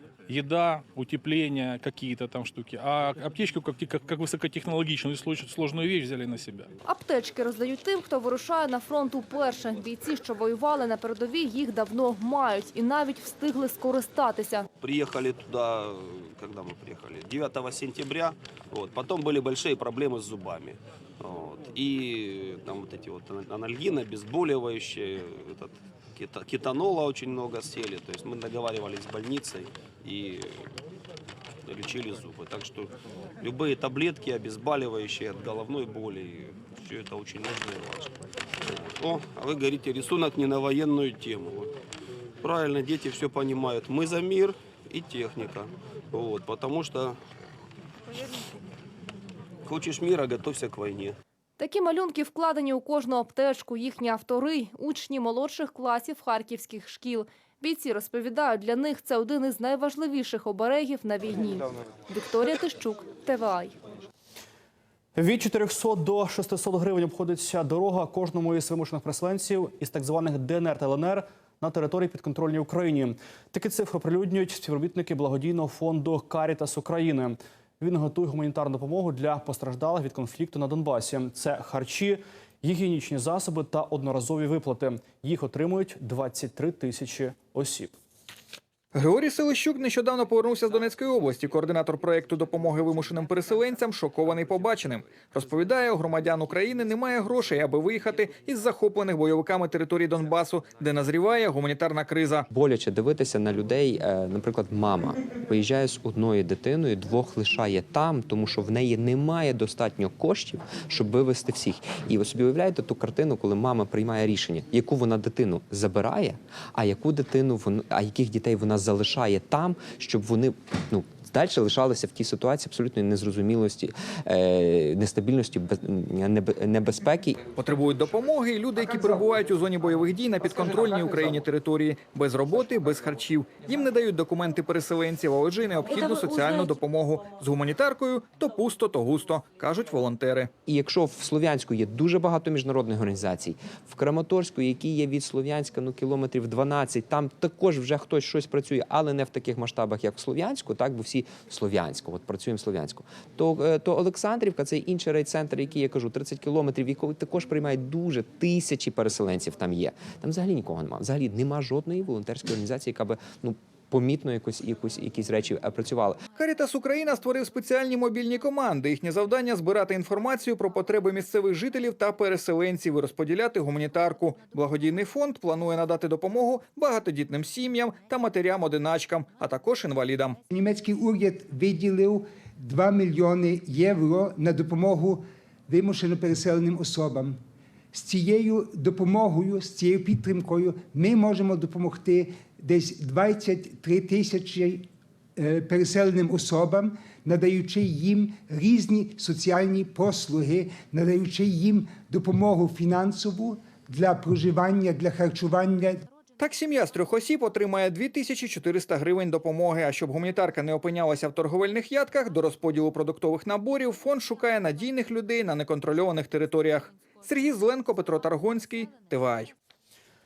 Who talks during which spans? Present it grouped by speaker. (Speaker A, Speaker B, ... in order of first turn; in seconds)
Speaker A: 0.3-6.7
Speaker B: 6.8-14.7, 51.6-63.8
Speaker C: 14.8-30.7, 31.6-41.7, 42.4-47.2, 49.6-51.1
Speaker D: 65.1-88.0
Speaker E: 88.9-102.5, 127.5-140.5, 166.3-180.4, 206.4-219.5
Speaker F: 102.5-127.4, 140.7-166.2
Speaker G: 180.5-187.4, 187.9-206.0